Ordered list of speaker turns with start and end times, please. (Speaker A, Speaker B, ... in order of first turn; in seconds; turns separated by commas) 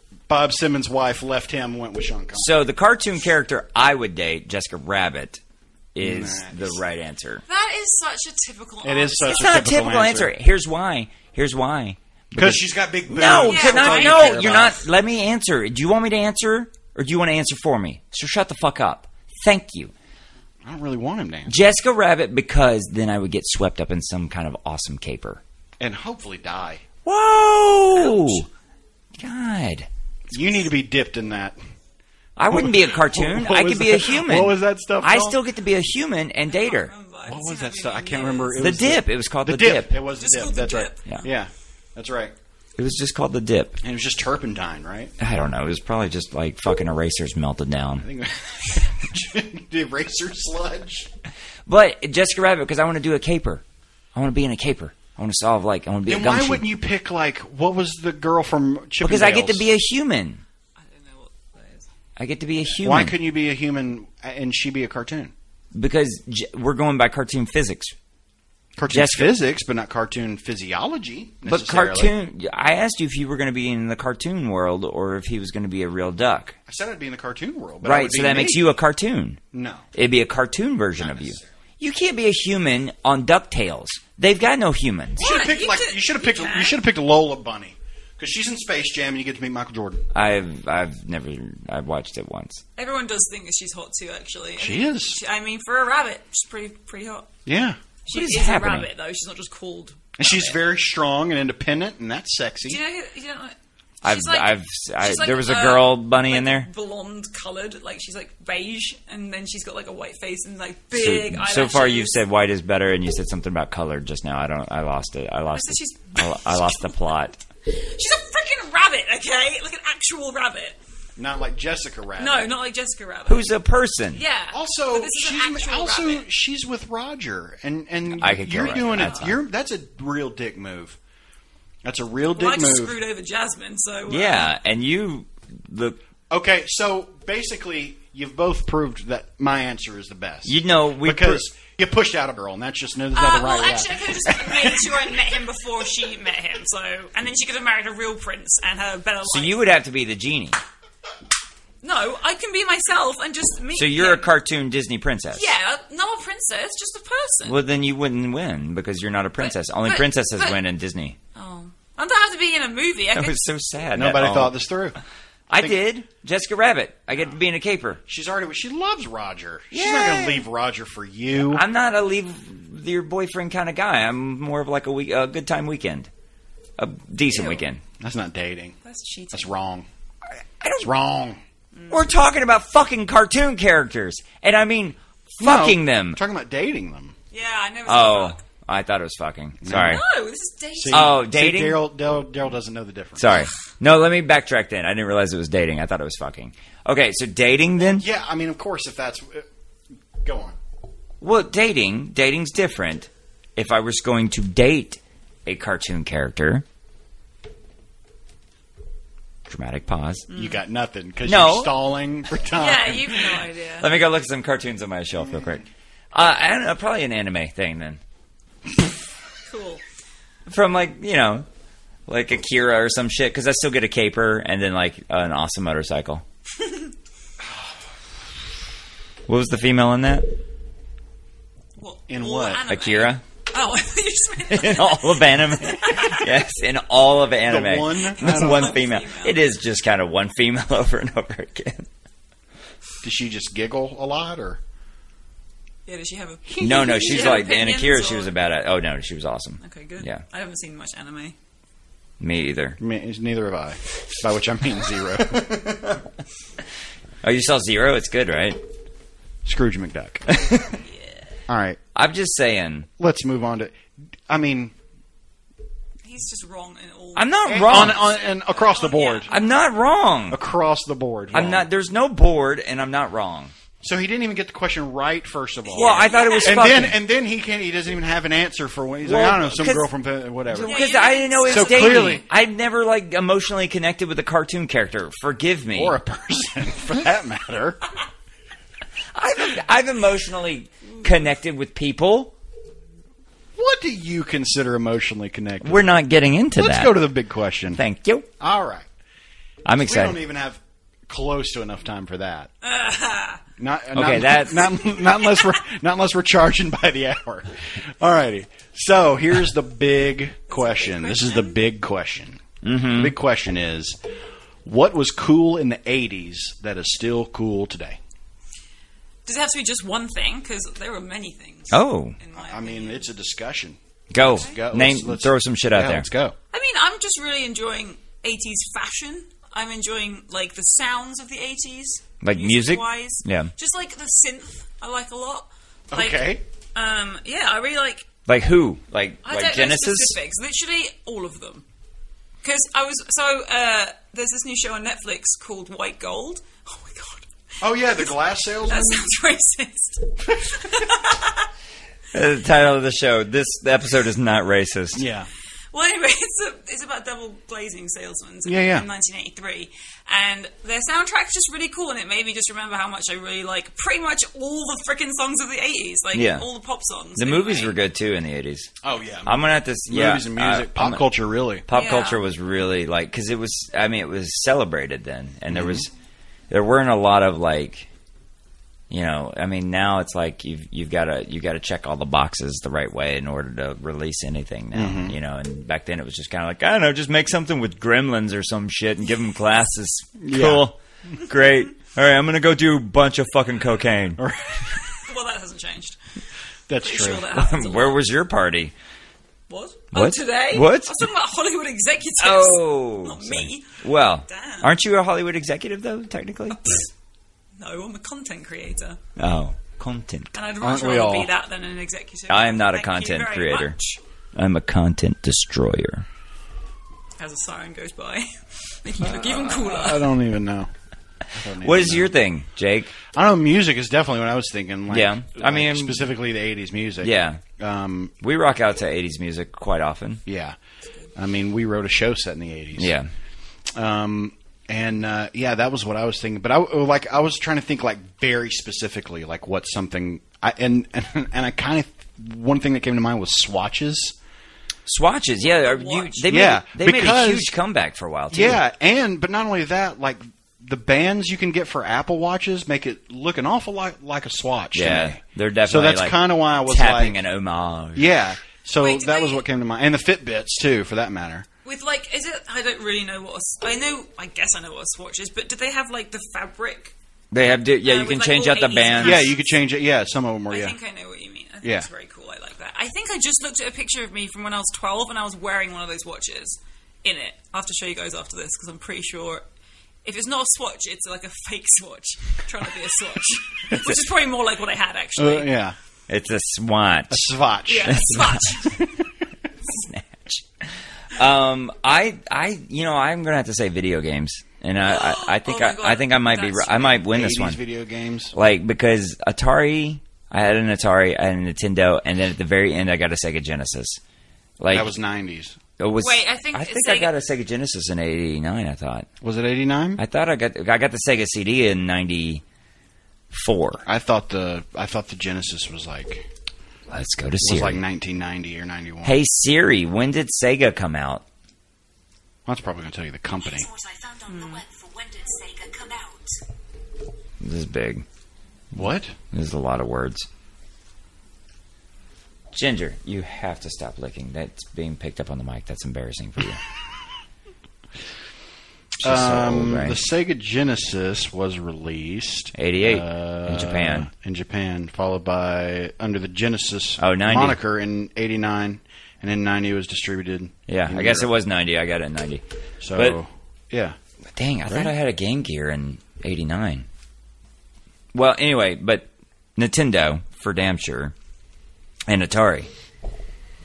Speaker A: 0.3-2.5, Speaker B: 2.4-5.4, Speaker B: 5.9-7.4, Speaker A: 6.0-6.8, Speaker C: 7.5-9.6, Speaker A: 8.8-10.3, Speaker B: 9.3-19.9, Speaker A: 12.3-14.8, Speaker C: 13.4-14.7, Speaker A: 20.6-21.5, Speaker B: 21.5-25.4, Speaker A: 25.8-26.8, Speaker B: 27.1-28.5, Speaker C: 27.9-28.4, Speaker B: 29.2-29.9, Speaker A: 30.3-31.6, Speaker B: 32.4-36.9, Speaker A: 32.5-35.4, Speaker C: 36.5-38.7, Speaker A: 37.3-42.3, Speaker B: 38.6-40.0, Speaker C: 40.2-41.3, Speaker B: 42.8-43.8, Speaker A: 43.8-45.1, Speaker B: 45.2-48.1, Speaker A: 48.0-51.1, Speaker B: 51.7-53.6, Speaker B: 54.1-56.6, Speaker A: 56.1-59.7, Speaker B: 59.0-60.4, Speaker C: 60.8-61.9, Speaker B: 62.2-63.2, Speaker A: 62.8-65.3, Speaker B: 65.7-67.9, Speaker A: 68.8-72.1, Speaker B: 68.9-69.3, Speaker B: 71.5-76.6, Speaker A: 76.7-78.7, Speaker B: 77.8-79.4, Speaker A: 79.5-79.9, Speaker B: 79.9-85.2, Speaker A: 81.0-81.4, Speaker C: 85.2-86.8, Speaker A: 85.2-90.0, Speaker B: 90.1-92.6, Speaker C: 92.8-97.3, Speaker A: 94.6-95.2, Speaker A: 97.5-97.8, Speaker C: 98.0-100.5, Speaker B: 98.1-98.9, Speaker A: 100.2-102.8, Speaker C: 102.7-112.2, Speaker B: 104.0-106.7, Speaker B: 110.9-117.4, Speaker C: 115.5-117.0, Speaker C: 117.7-120.8, Speaker A: 121.2-122.5, Speaker C: 122.2-123.5, Speaker B: 123.3-124.2, Speaker C: 124.1-126.3, Speaker A: 124.5-131.0, Speaker B: 128.1-129.4, Speaker C: 128.7-129.3, Speaker A: 131.8-133.0, Speaker C: 132.3-134.5, Speaker B: 134.1-136.0, Speaker A: 136.3-145.1, Speaker B: 140.4-141.5, Speaker C: 143.1-149.7, Speaker B: 149.2-150.6, Speaker C: 151.8-154.3, Speaker B: 153.8-155.5, Speaker C: 155.3-157.6, Speaker B: 157.5-161.2, Speaker C: 159.4-160.6, Speaker C: 161.3-163.5, Speaker B: 163.2-164.6, Speaker A: 163.9-165.0, Speaker B: 165.5-168.0, Speaker A: 168.1-171.6, Speaker B: 169.7-170.4, Speaker B: 171.4-176.1, Speaker B: 176.8-177.8, Speaker C: 177.3-177.6, Speaker A: 178.0-178.8, Speaker C: 178.8-179.5, Speaker A: 179.3-179.9, Speaker B: 180.6-180.9, Speaker A: 180.8-181.4, Speaker C: 181.8-182.1, Speaker B: 181.9-186.2, Speaker A: 185.4-187.2, Speaker C: 187.3-188.4, Speaker B: 187.9-190.0, Speaker A: 189.6-190.0, Speaker C: 189.7-191.2, Speaker A: 190.8-193.4, Speaker B: 190.9-191.8, Speaker B: 193.2-198.0, Speaker A: 197.8-199.5, Speaker A: 200.2-200.6, Speaker B: 201.2-206.7, Speaker B: 209.5-210.3, Speaker C: 210.3-210.6, Speaker A: 210.3-213.5, Speaker B: 211.2-211.8, Speaker C: 212.5-213.9, Speaker B: 213.8-218.0, Speaker C: 219.5-219.8, Speaker B: 220.5-221.5, Speaker B: 222.1-226.2, Speaker B: 229.3-230.3, Speaker C: 231.8-236.3, Speaker A: 232.1-232.6, Speaker B: 232.7-233.2, Speaker B: 234.5-241.9, Speaker A: 237.5-238.8, Speaker C: 238.1-239.4, Speaker A: 243.0-244.6, Speaker C: 245.9-248.3, Speaker A: 246.5-247.5, Speaker B: 246.6-250.2, Speaker C: 249.6-251.3, Speaker B: 252.2-252.8, Speaker A: 252.8-255.6, Speaker B: 255.2-256.0, Speaker B: 257.2-258.6, Speaker A: 259.4-260.2, Speaker B: 260.3-260.7, Speaker C: 260.8-261.2, Speaker A: 261.5-261.8, Speaker B: 261.9-262.9, Speaker A: 263.0-263.8, Speaker A: 264.3-264.7, Speaker C: 266.0-269.5, Speaker B: 267.1-268.1, Speaker A: 267.5-269.3, Speaker B: 269.3-270.4, Speaker A: 270.3-271.7, Speaker B: 271.3-273.5, Speaker A: 273.8-280.9, Speaker C: 275.7-276.9, Speaker B: 275.7-277.0, Speaker B: 279.0-279.9, Speaker B: 280.5-286.0, Speaker C: 280.6-282.2, Speaker A: 281.4-282.2, Speaker A: 285.8-287.8, Speaker B: 289.1-292.3, Speaker A: 293.6-295.9, Speaker B: 295.6-297.0, Speaker A: 296.6-297.8, Speaker B: 297.8-298.3, Speaker A: 298.4-298.9, Speaker B: 299.6-300.2, Speaker A: 299.8-302.5, Speaker C: 302.6-303.4, Speaker A: 303.6-314.0, Speaker B: 303.9-304.8, Speaker C: 310.5-311.6, Speaker B: 312.6-313.1, Speaker A: 314.6-318.0, Speaker C: 319.3-323.1, Speaker B: 321.7-322.2, Speaker A: 322.4-326.4, Speaker B: 324.1-326.1, Speaker C: 326.5-338.1, Speaker B: 332.2-333.5, Speaker A: 335.9-336.4, Speaker B: 338.3-340.2, Speaker C: 339.2-341.6, Speaker C: 342.4-347.3, Speaker A: 347.6-349.1, Speaker C: 347.8-351.5, Speaker B: 352.1-355.0, Speaker A: 354.9-355.3, Speaker C: 355.7-367.8, Speaker A: 358.5-358.9, Speaker B: 366.1-366.4, Speaker B: 367.2-368.7, Speaker A: 368.8-371.7, Speaker B: 369.3-371.1, Speaker B: 371.7-375.9, Speaker C: 371.7-372.2, Speaker A: 375.5-375.9, Speaker B: 376.5-377.9, Speaker B: 378.9-394.2, Speaker A: 384.7-385.2, Speaker A: 390.2-390.7, Speaker A: 394.2-394.9, Speaker C: 395.0-396.0, Speaker A: 396.7-397.3, Speaker C: 396.8-398.0, Speaker B: 397.3-398.7, Speaker C: 399.5-404.7, Speaker B: 399.9-401.0, Speaker B: 402.2-406.8, Speaker C: 407.6-409.0, Speaker B: 409.2-410.3, Speaker C: 410.3-414.0, Speaker A: 410.6-411.3, Speaker B: 412.3-413.8, Speaker B: 414.4-416.1, Speaker C: 417.2-420.1, Speaker A: 419.0-420.7, Speaker A: 421.4-422.1, Speaker B: 421.5-422.9, Speaker A: 423.1-428.1, Speaker B: 424.9-426.1, Speaker B: 427.0-427.4, Speaker B: 428.2-430.2, Speaker A: 430.3-430.6, Speaker A: 431.2-432.9, Speaker B: 432.8-433.1, Speaker A: 433.7-444.1, Speaker B: 444.9-448.6, Speaker C: 445.4-446.2, Speaker A: 446.3-447.5, Speaker A: 448.3-457.2, Speaker B: 454.7-458.1, Speaker A: 457.9-461.5, Speaker C: 458.8-459.4, Speaker C: 461.6-466.9, Speaker B: 467.3-469.3, Speaker C: 467.8-469.6, Speaker A: 469.0-470.8, Speaker C: 470.5-479.4, Speaker A: 471.6-471.9, Speaker C: 480.1-485.6, Speaker A: 485.2-485.8, Speaker B: 486.1-487.3, Speaker A: 487.1-488.1, Speaker C: 487.7-488.9, Speaker B: 487.9-488.4, Speaker B: 489.7-497.6, Speaker C: 494.9-497.0, Speaker A: 497.0-498.3, Speaker B: 498.3-504.0, Speaker B: 504.6-504.9, Speaker A: 504.7-505.6, Speaker B: 505.8-509.1, Speaker C: 506.0-507.1, Speaker A: 509.2-510.0, Speaker B: 510.0-512.4, Speaker B: 513.3-513.8, Speaker A: 513.9-516.3, Speaker B: 516.9-517.8, Speaker A: 517.4-519.2, Speaker B: 519.0-521.2, Speaker A: 522.5-523.7, Speaker D: 523.4-526.3, Speaker C: 524.3-524.6, Speaker B: 527.4-528.0, Speaker A: 528.7-529.1, Speaker B: 529.3-530.3, Speaker B: 532.5-536.6, Speaker B: 539.0-540.0, Speaker A: 539.0-551.3, Speaker B: 542.5-544.1, Speaker B: 547.0-547.6, Speaker B: 550.7-552.4, Speaker A: 552.8-554.0, Speaker B: 554.4-556.9, Speaker A: 554.7-554.9, Speaker B: 558.1-561.1, Speaker B: 562.1-562.7